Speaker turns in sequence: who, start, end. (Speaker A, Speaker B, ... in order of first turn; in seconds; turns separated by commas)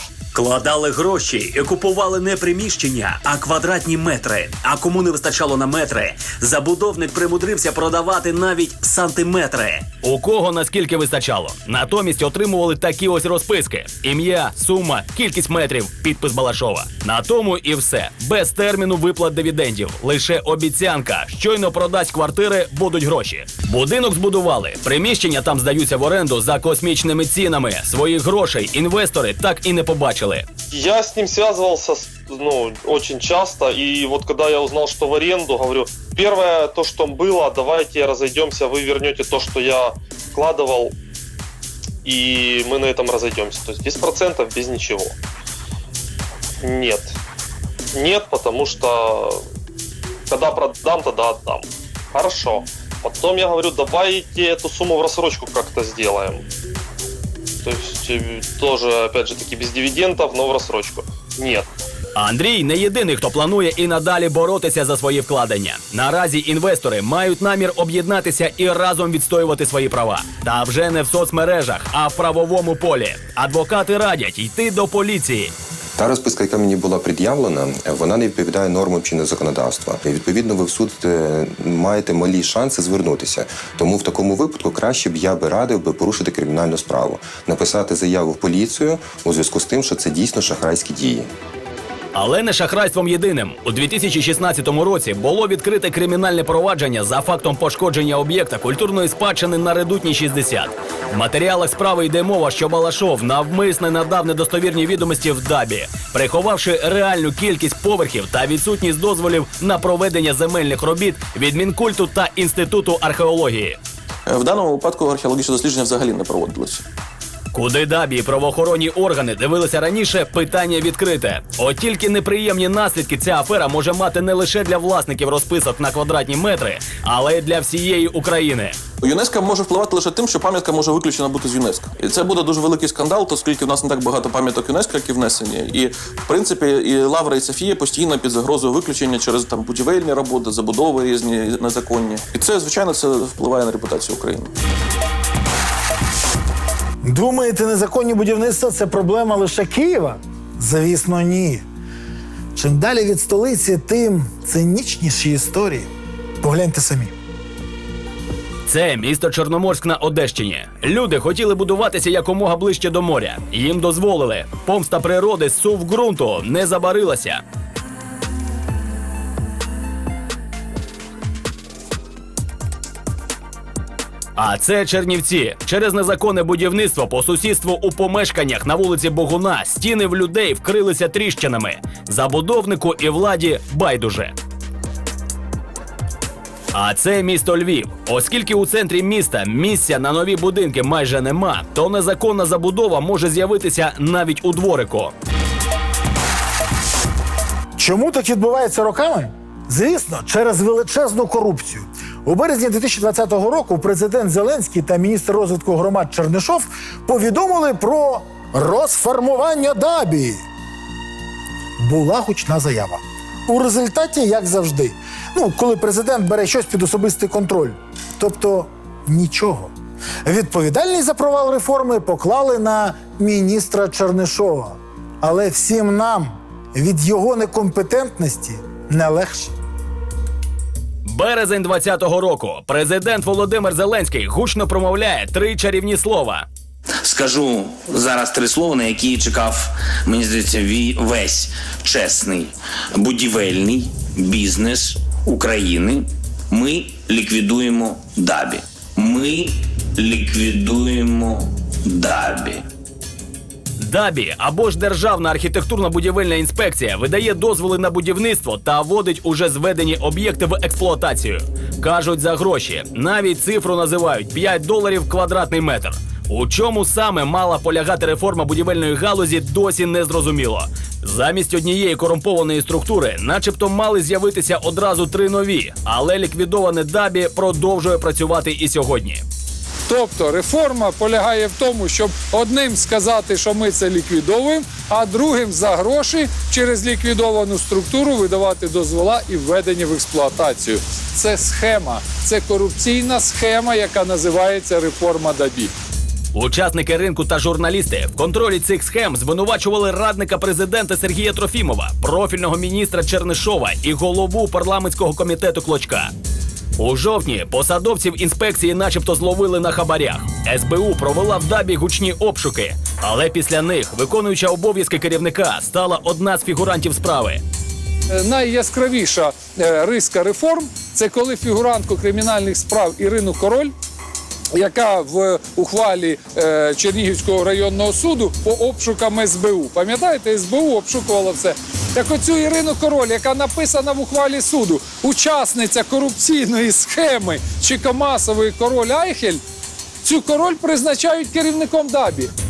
Speaker A: 0.3-30.4, Speaker B: 30.7-40.9, Speaker B: 42.0-45.1, Speaker B: 46.6-47.1, Speaker B: 47.9-49.4, Speaker B: 50.3-56.4, Speaker B: 57.6-61.7, Speaker A: 62.1-75.5, Speaker C: 76.0-91.3, Speaker A: 92.1-113.8, Speaker D: 114.3-116.8, Speaker A: 117.5-128.8, Speaker D: 129.0-144.5, Speaker E: 147.0-151.6, Speaker E: 152.6-155.9, Speaker E: 156.4-157.1, Speaker A: 158.7-167.4, Speaker A: 174.4-184.3, Speaker A: 186.7-195.1, Speaker E: 197.8-210.4, Speaker E: 211.8-219.7, Speaker E: 220.2-229.5, Speaker A: 231.1-236.4, Speaker F: 237.0-252.6, Speaker A: 253.8-279.2, Speaker G: 279.9-295.7, Speaker A: 296.3-306.1, Speaker A: 306.8-317.4, Speaker G: 318.2-323.7, Speaker G: 324.5-339.4, Speaker G: 340.0-342.3